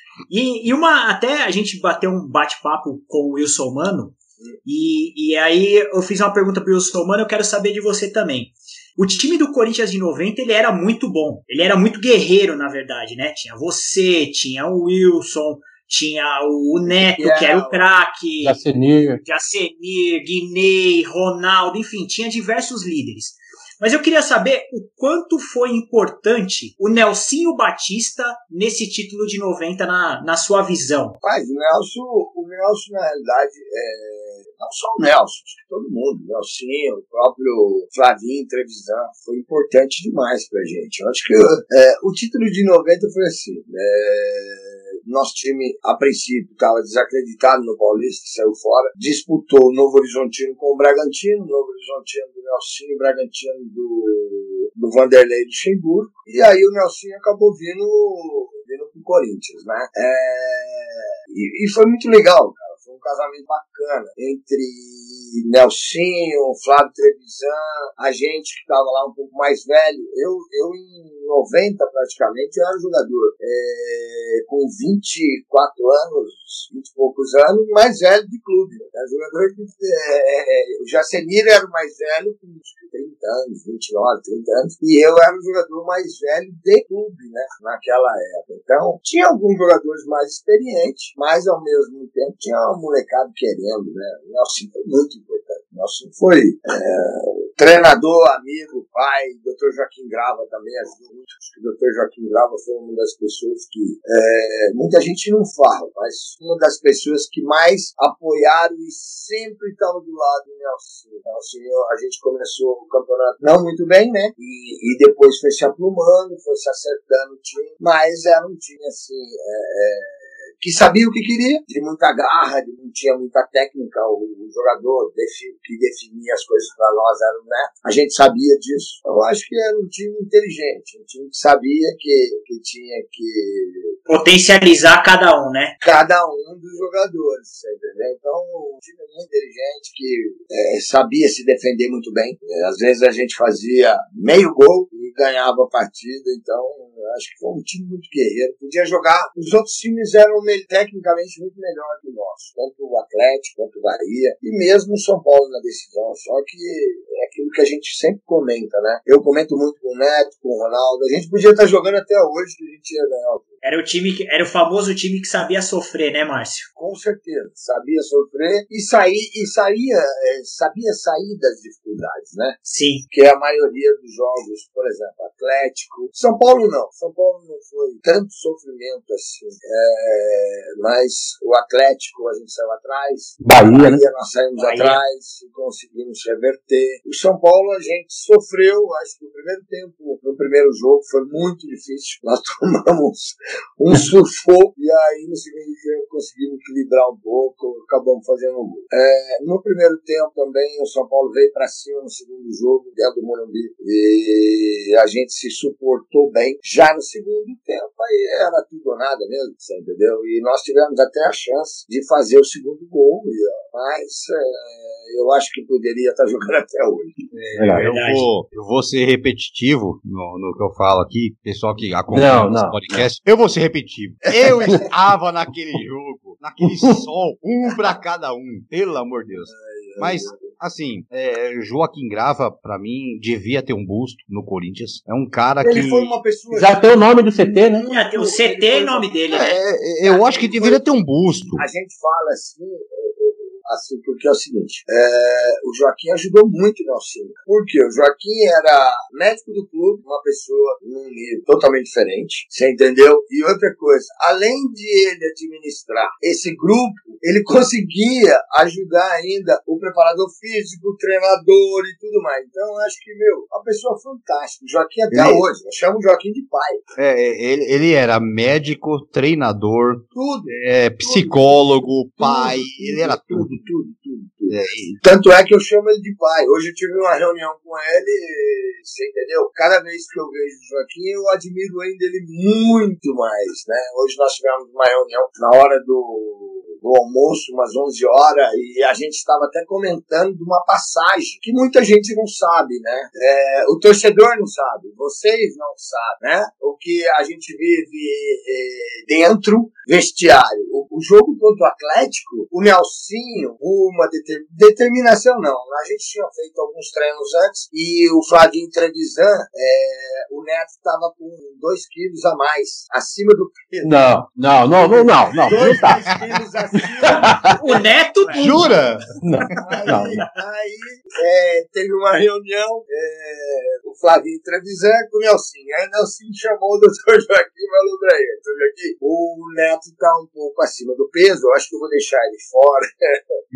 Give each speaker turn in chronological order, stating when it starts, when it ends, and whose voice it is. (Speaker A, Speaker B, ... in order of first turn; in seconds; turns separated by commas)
Speaker A: 0.3-18.6, Speaker B: 16.9-17.9, Speaker C: 18.4-19.2, Speaker A: 19.2-31.2, Speaker B: 31.2-133.9, Speaker A: 134.1-135.7, Speaker B: 135.8-163.6, Speaker A: 163.6-166.7, Speaker B: 166.8-172.6, Speaker A: 172.6-173.0, Speaker B: 173.1-217.3, Speaker C: 183.4-184.0, Speaker A: 184.6-185.0, Speaker D: 217.3-236.1, Speaker C: 217.5-217.9, Speaker A: 217.7-218.2, Speaker C: 222.1-223.1, Speaker B: 224.4-224.8, Speaker C: 226.6-227.0, Speaker B: 229.5-230.5, Speaker B: 235.6-239.4, Speaker C: 236.5-237.8, Speaker A: 237.8-239.5, Speaker D: 239.3-241.6, Speaker B: 240.0-240.8, Speaker B: 241.6-266.8, Speaker D: 265.1-265.4, Speaker D: 267.0-273.5, Speaker B: 270.1-314.0, Speaker D: 274.5-275.0, Speaker C: 313.8-316.1, Speaker B: 314.6-318.7, Speaker D: 315.4-316.3, Speaker C: 317.0-317.6, Speaker A: 317.6-318.8, Speaker D: 318.3-319.9, Speaker C: 319.2-320.1, Speaker B: 319.6-333.4